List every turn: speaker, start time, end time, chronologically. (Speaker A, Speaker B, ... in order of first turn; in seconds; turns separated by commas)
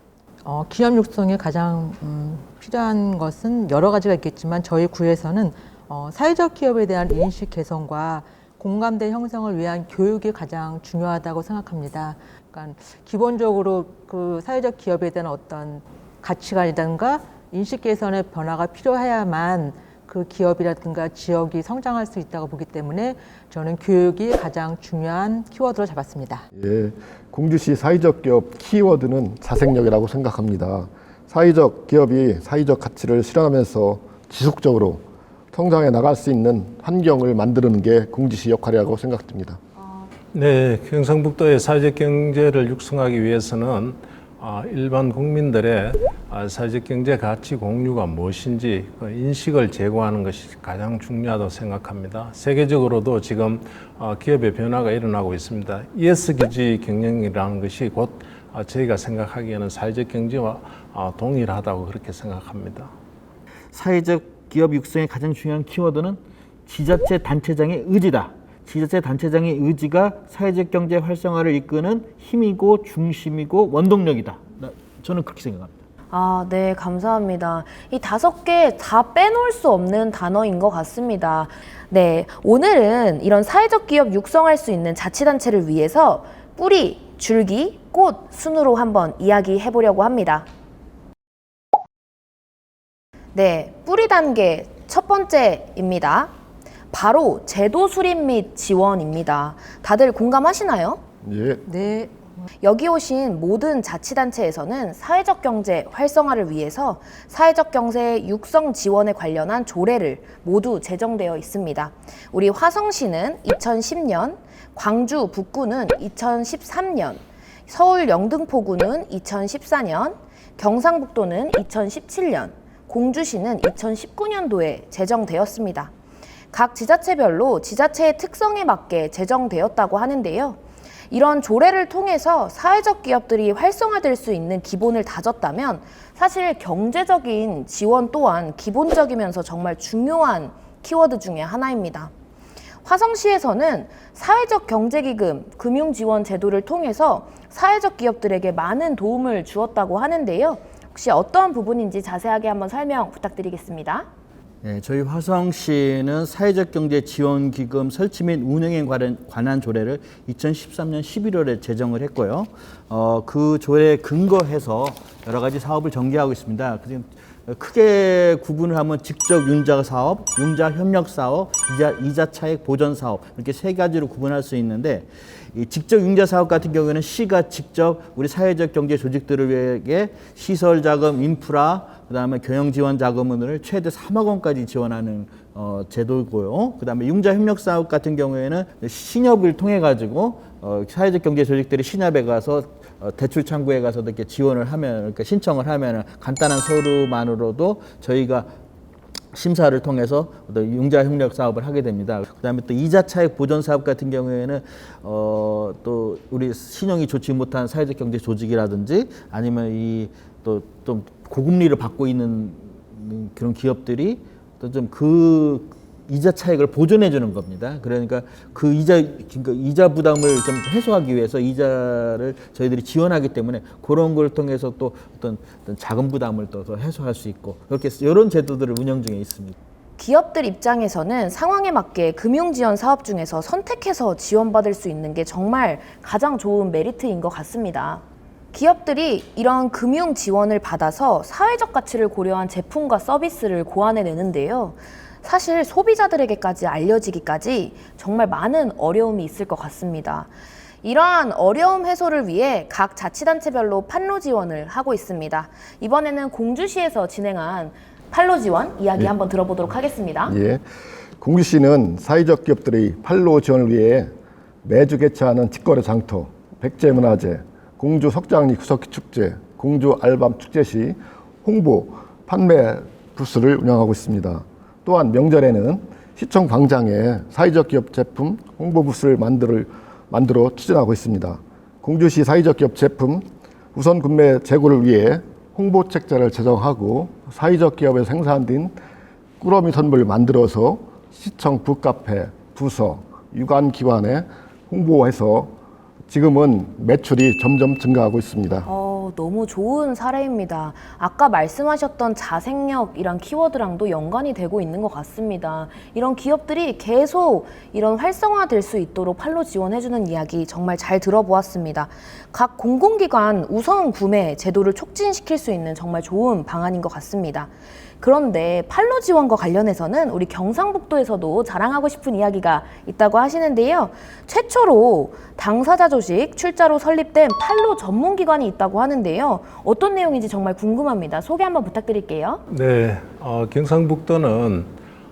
Speaker A: 0.4-26.5, Speaker B: 26.5-39.6, Speaker C: 40.3-62.9, Speaker D: 63.7-75.8, Speaker E: 76.1-90.5, Speaker E: 93.3-96.3, Speaker E: 96.9-101.0, Speaker B: 101.2-101.6, Speaker A: 101.7-102.2, Speaker E: 102.6-125.9, Speaker E: 126.5-130.6, Speaker E: 131.1-142.1, Speaker E: 142.8-154.1, Speaker D: 154.6-198.5, Speaker D: 199.3-229.6, Speaker E: 230.0-250.3, Speaker E: 250.8-260.3, Speaker B: 260.3-260.6, Speaker B: 261.2-264.1, Speaker B: 264.6-288.8, Speaker B: 289.4-295.5, Speaker B: 296.1-298.7, Speaker E: 298.6-332.4, Speaker C: 332.5-334.7